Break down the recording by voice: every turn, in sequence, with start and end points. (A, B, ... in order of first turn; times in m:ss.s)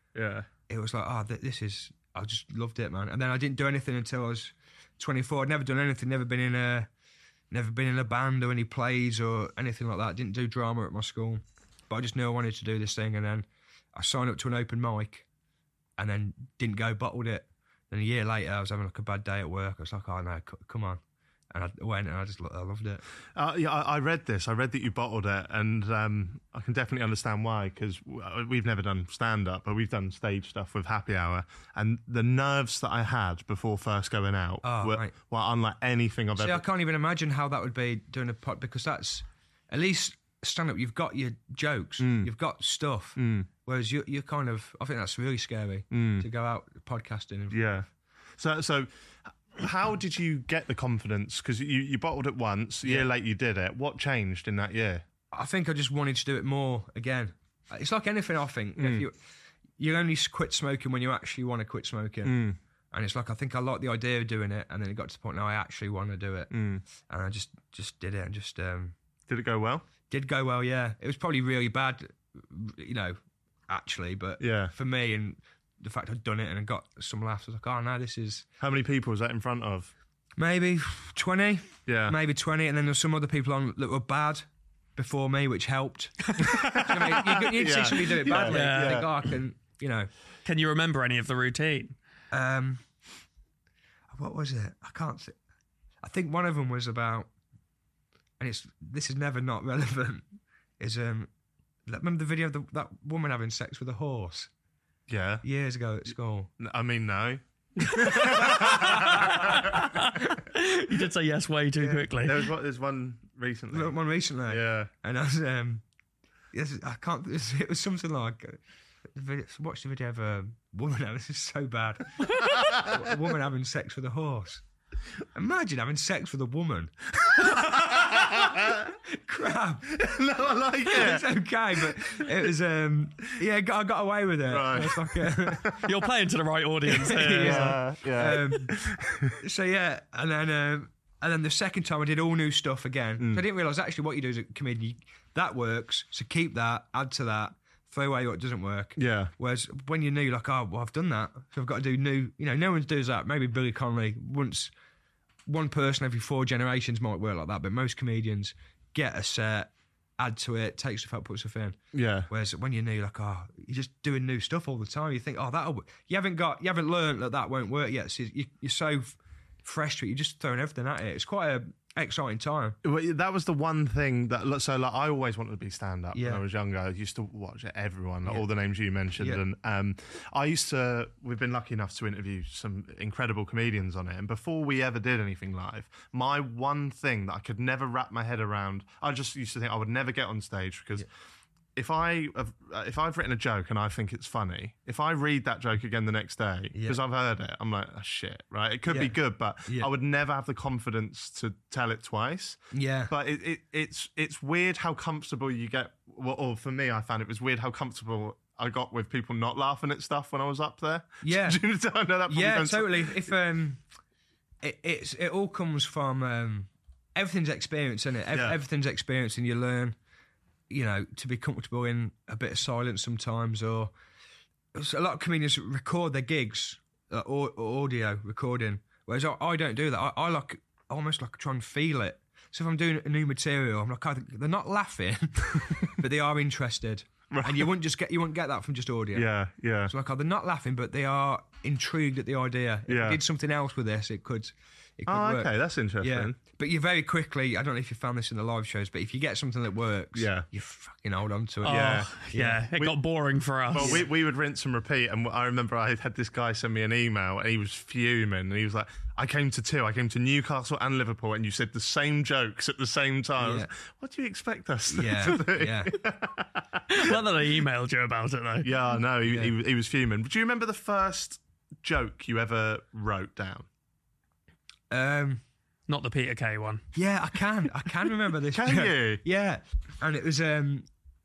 0:00.1-0:00.5 A
0:00.7-0:06.9 B
0:07.5-0:15.2 B
0:16.0-0:23.0 B
0:23.3-0:36.6 A
0:34.6-0:35.1 B
0:36.4-0:47.8 B
0:42.0-0:42.3 A
0:43.2-0:43.5 A
0:45.9-0:46.2 A
0:47.5-0:47.8 A
0:48.4-0:48.9 A
0:49.5-0:55.0 A
0:52.8-0:53.1 B
0:55.3-0:59.1 B
0:58.8-0:59.0 A
0:59.8-1:02.4 B
1:02.2-1:02.6 A
1:02.9-1:08.9 B
1:06.5-1:06.8 A
1:09.3-1:09.8 A
1:10.1-1:18.4 B
1:14.4-1:14.7 A
1:18.6-1:19.9 A
1:20.4-1:24.4 B
1:21.8-1:22.2 A
1:25.0-1:30.1 B
1:26.4-1:29.1 A
1:28.4-1:29.1 C
1:30.4-1:31.9 C
1:32.3-1:32.8 B
1:34.1-1:35.4 B
1:36.0-1:37.3 B
1:38.4-1:40.2 B
1:40.8-1:41.3 B
1:41.8-1:44.5 B
1:45.1-1:45.4 A
1:45.4-1:46.5 B
1:46.6-1:49.9 A
1:48.1-1:49.5 B
1:49.0-1:52.4 C
1:52.2-1:54.0 A
1:53.7-1:55.8 B
1:54.5-1:54.9 A
1:56.5-1:58.6 B
1:59.1-2:04.6 B
2:02.5-2:03.1 A
2:05.3-2:06.9 B
2:07.4-2:08.9 A
2:09.1-2:10.0 B
2:09.9-2:11.9 A
2:10.8-2:15.8 B
2:14.5-2:15.8 A
2:15.8-2:17.7 C
2:16.9-2:34.7 B
2:17.3-2:19.4 A
2:29.0-2:29.3 A
2:35.4-2:41.8 B
2:41.9-2:42.3 A
2:42.3-2:52.8 B
2:52.8-3:11.1 A
2:56.1-2:56.4 B
3:11.8-3:33.3 A
3:16.7-3:17.0 B
3:18.9-3:19.9 B
3:22.7-3:23.1 B
3:31.2-3:31.6 B
3:32.3-3:33.8 B
3:34.6-3:40.0 B
3:38.3-3:38.6 A
3:40.7-3:43.9 B
3:44.7-3:59.3 B
3:57.3-3:57.7 A
3:59.1-3:59.9 A
3:59.9-4:12.6 B
4:02.9-4:03.2 A
4:05.1-4:06.4 A
4:10.1-4:10.4 A
4:11.6-4:14.0 C
4:11.6-4:12.1 A
4:13.7-4:27.2 A
4:13.8-4:14.0 B
4:23.4-4:23.7 B
4:24.9-4:25.9 B
4:26.9-4:28.7 C
4:28.6-4:33.7 A
4:29.3-4:29.5 B
4:34.9-4:35.4 B
4:35.9-4:36.8 C
4:36.9-4:40.8 B
4:38.5-4:39.2 A